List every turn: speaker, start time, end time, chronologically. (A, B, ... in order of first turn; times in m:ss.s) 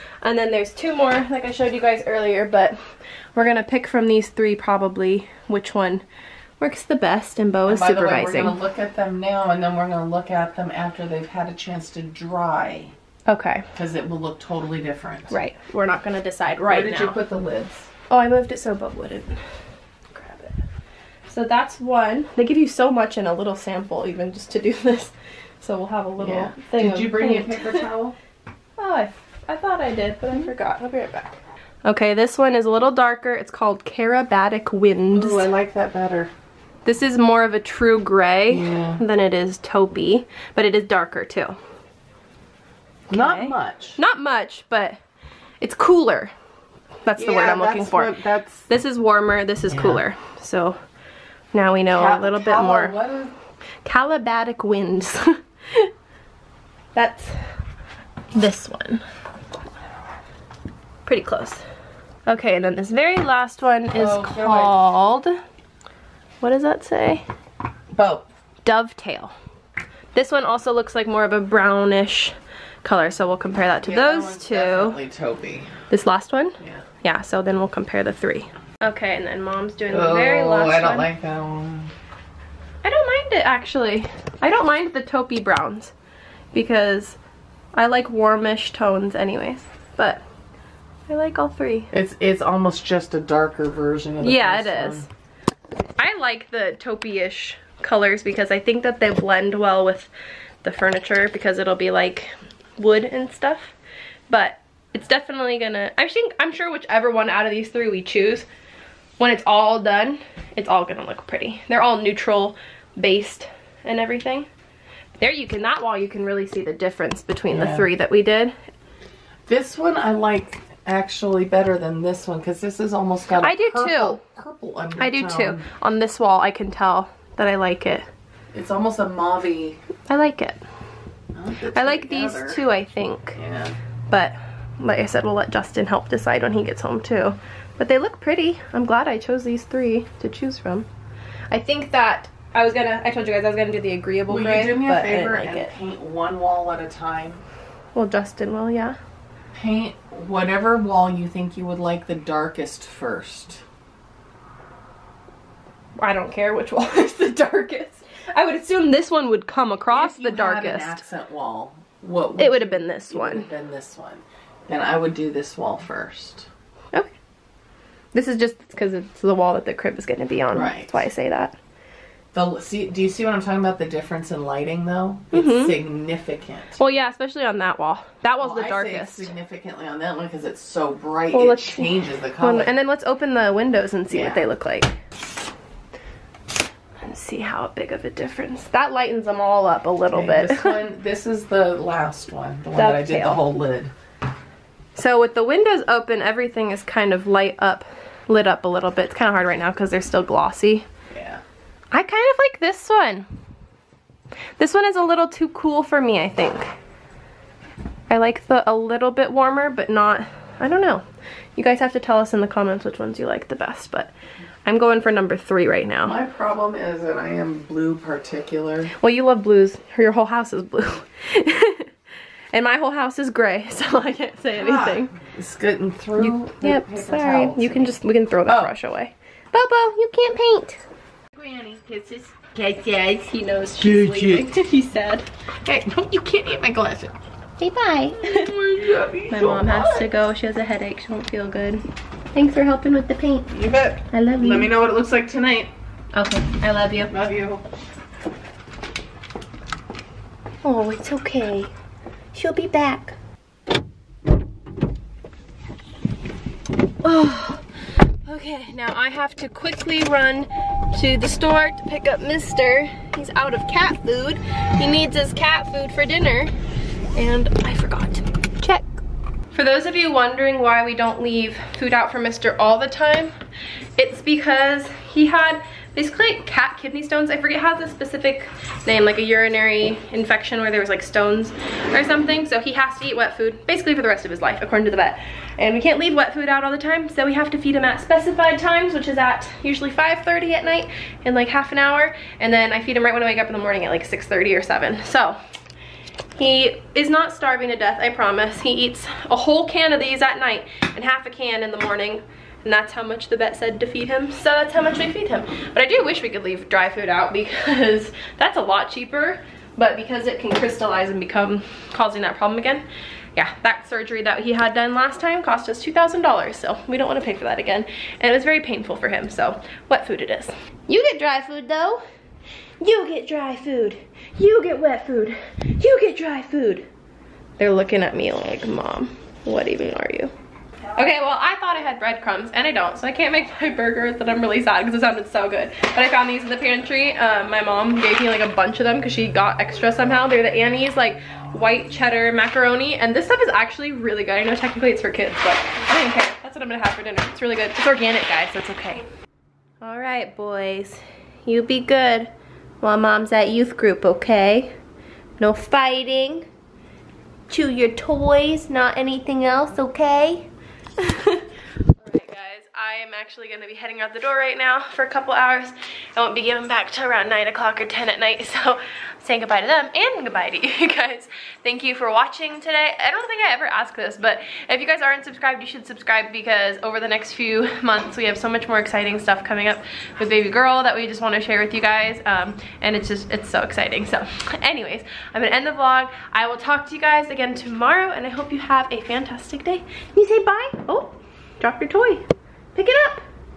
0:00.2-0:02.8 A
0:03.4-0:06.0 A
0:06.6-0:08.6 A
0:07.7-0:12.9 B
0:13.3-0:13.7 A
0:13.8-0:15.4 B
0:15.3-0:17.2 A
0:16.7-0:17.9 B
0:18.1-0:19.4 A
0:20.1-0:20.6 A
0:21.3-0:27.9 A
0:26.2-0:28.2 B
0:28.8-0:35.5 A
0:35.1-0:36.3 B
0:36.8-0:41.6 A
0:38.5-0:39.0 B
0:43.1-0:44.0 B
0:43.1-0:45.0 A
0:45.6-0:46.3 A
0:47.0-0:50.8 A
0:47.2-0:48.7 B
0:49.7-0:50.0 B
0:51.5-0:53.0 A
0:51.9-0:53.3 B
0:53.8-0:55.9 A
0:57.0-0:57.5 A
0:58.3-0:59.0 A
1:01.1-1:01.6 A
1:02.3-1:05.4 A
1:03.9-1:04.9 B
1:06.4-1:07.2 A
1:08.0-1:08.3 B
1:08.6-1:09.3 A
1:10.1-1:15.0 A
1:13.8-1:15.8 B
1:15.9-1:21.1 A
1:16.6-1:16.8 B
1:19.9-1:21.9 B
1:22.8-1:25.9 A
1:26.5-1:27.2 A
1:27.8-1:30.2 A
1:31.1-1:31.9 A
1:31.9-1:35.1 B
1:34.2-1:35.1 A
1:36.0-1:40.1 A
1:40.6-1:43.7 A
1:44.3-1:48.5 A
1:49.2-1:54.5 A
1:55.2-1:58.6 A
1:57.5-1:57.9 B
1:59.5-2:05.6 B
2:03.4-2:04.2 A
2:05.0-2:08.1 A
2:08.5-2:09.8 B
2:10.1-2:10.6 A
2:11.3-2:12.6 B
2:11.7-2:13.4 A
2:13.4-2:13.8 B
2:14.1-2:20.9 A
2:21.5-2:25.7 A
2:24.3-2:27.4 B
2:28.0-2:29.0 A
2:29.5-2:33.6 B
2:36.0-2:41.0 A
2:39.9-2:46.5 B
2:42.4-2:43.5 A
2:48.1-2:51.6 A
2:50.5-2:51.1 B
2:52.3-2:56.8 B
2:55.3-2:55.8 A
2:56.8-2:59.3 A
2:58.4-3:02.7 B
3:01.3-3:04.9 A
3:04.1-3:04.4 B
3:07.0-3:10.8 A
3:10.1-3:13.9 B
3:12.7-3:13.4 A
3:15.0-3:20.9 A
3:21.1-3:21.4 B
3:21.9-3:23.3 A
3:24.6-3:26.7 A
3:28.1-3:31.0 A
3:31.6-3:34.1 A
3:34.7-3:36.2 A
3:36.0-3:38.9 B
3:39.0-3:41.9 A
3:42.5-3:45.2 A
3:44.5-3:48.7 B
3:46.2-3:50.8 A
3:51.3-3:52.5 B
3:52.6-3:55.3 A
3:53.8-3:54.5 B
3:55.6-3:57.1 B
3:57.6-3:58.5 A
3:58.1-4:00.1 B
3:59.3-4:03.5 A
4:03.5-4:05.7 B
4:04.1-4:04.7 A
4:06.1-4:07.1 A
4:07.1-4:07.6 B
4:10.6-4:11.7 A
4:12.3-4:13.2 A
4:17.0-4:17.7 A
4:18.2-4:26.5 A
4:27.2-4:29.0 A
4:29.5-4:33.3 A
4:34.0-4:55.4 A
4:56.4-5:22.0 A
5:22.8-5:26.8 A
5:27.6-5:30.3 A
5:31.0-5:49.0 A
5:49.8-5:52.3 A
5:52.8-5:54.8 A
5:55.4-5:56.5 A
5:57.5-6:33.2 A